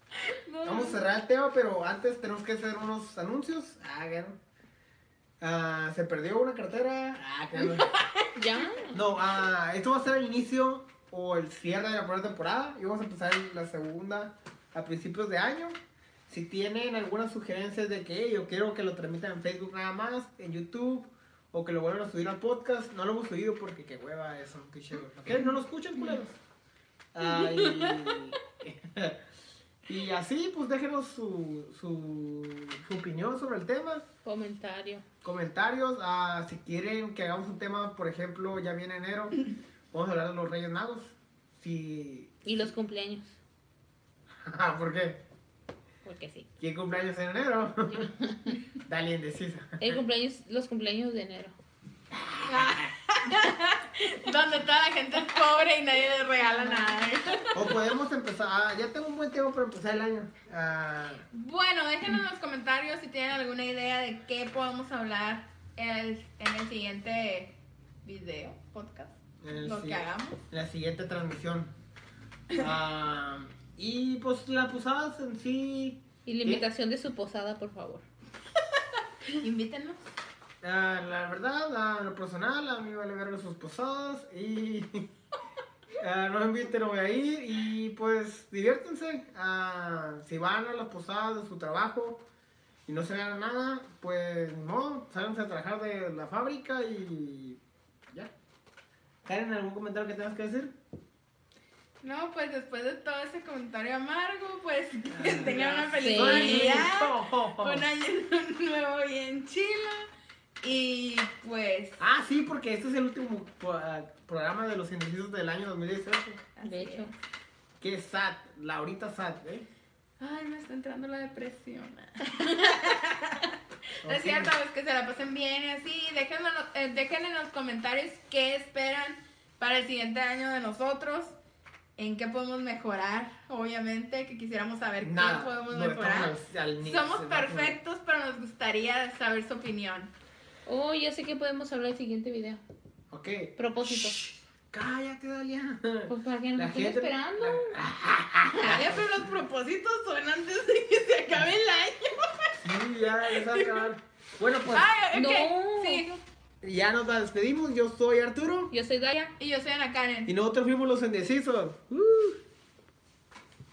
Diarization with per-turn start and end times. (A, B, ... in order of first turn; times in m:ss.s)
0:00.3-0:01.0 A
0:00.6-0:04.4 B
0:05.4-0:07.9 B
0:07.6-0:08.9 A
0:08.4-0:09.0 C
0:08.9-0:15.8 B
0:16.3-0:26.4 B
0:27.1-0:29.2 B
0:27.3-0:28.2 A
0:29.8-0:34.1 B
0:34.2-0:35.0 C
0:35.2-0:42.4 B
0:42.4-0:43.4 C
0:44.4-0:45.2 B
0:46.0-0:46.5 C
0:46.6-0:48.1 B
0:47.9-0:48.6 C
0:48.8-0:50.0 B
0:49.8-0:51.5 C
0:52.4-0:52.9 B
0:52.4-0:57.8 A
0:57.5-1:01.2 B
1:01.3-1:10.4 A
1:09.4-1:11.7 B
1:12.5-1:16.6 B
1:16.2-1:18.0 C
1:19.3-1:20.1 A
1:20.6-1:25.0 B
1:26.0-1:32.2 B
1:32.9-1:38.3 B
1:39.2-1:40.7 B
1:42.0-1:50.1 A
1:45.1-1:47.9 B
1:46.0-1:46.9 C
1:50.6-1:52.0 A
1:52.0-1:56.4 B
1:56.6-1:57.2 A
1:56.6-1:57.1 C
1:57.8-1:59.7 B
2:00.2-2:11.4 A
2:04.0-2:04.5 B
2:12.0-2:20.1 A
2:15.0-2:17.8 B
2:20.6-2:22.6 C
2:23.1-2:29.2 B
2:23.6-2:24.2 C
2:26.1-2:27.8 C
2:28.6-2:33.8 A
2:32.6-2:34.9 B
2:34.7-2:36.2 A
2:35.1-2:36.0 C
2:36.6-2:38.7 B
2:38.7-2:39.1 C
2:39.1-2:40.3 A
2:40.2-2:42.4 B